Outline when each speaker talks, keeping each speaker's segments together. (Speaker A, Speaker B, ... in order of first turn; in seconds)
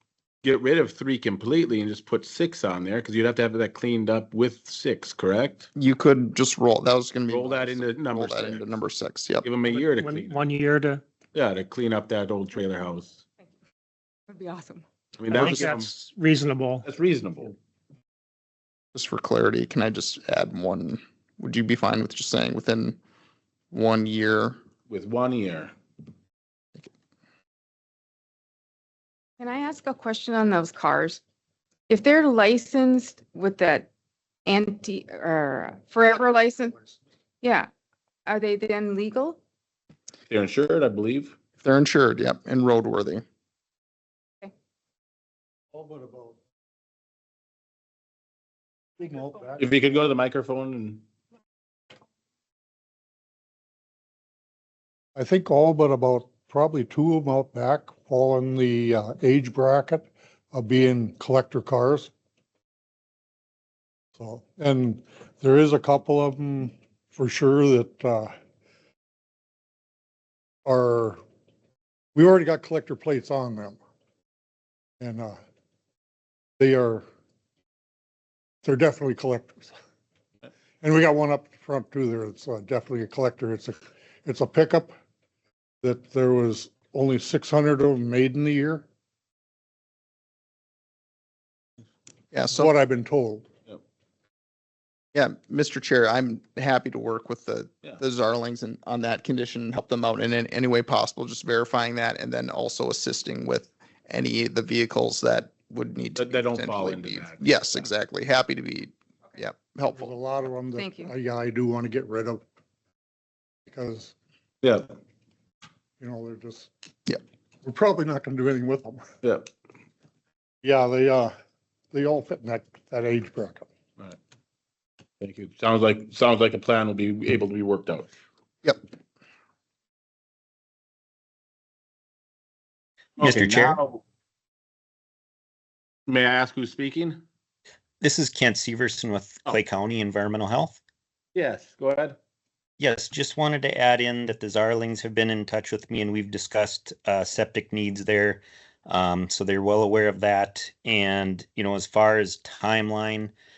Speaker A: 0.4-5.7, 7.3-8.7, 9.4-10.5, 11.3-13.2, 15.2-15.9, 16.9-17.6, 24.9-25.7, 40.3-41.4, 49.6-51.0, 106.2-107.9, 114.6-114.9, 119.2-119.5, 125.2-128.1, 133.2-134.0, 136.1-137.2, 141.3-142.2
Speaker B: 5.8-9.5, 18.9-23.0, 23.7-24.6, 41.6-43.2, 92.3-92.7, 95.1-110.1
Speaker C: 9.7-11.0, 15.3-16.9
Speaker D: 14.3-14.8, 29.4-31.2, 31.9-33.9, 34.5-36.8, 37.4-37.7, 38.3-39.4, 110.7-111.1
Speaker E: 45.7-46.4, 49.0-49.6, 55.1-62.1, 64.2-68.3, 70.7-71.2, 72.2-73.8, 75.0-75.4, 76.6-77.0, 78.6-79.7, 80.8-84.9, 85.8-88.9, 92.5-93.5, 109.9-112.4, 113.7-114.1, 116.0-116.7, 117.6-119.1, 120.6-121.3, 121.9-123.7
Speaker F: 133.2-133.8, 138.0-140.8, 142.8-153.3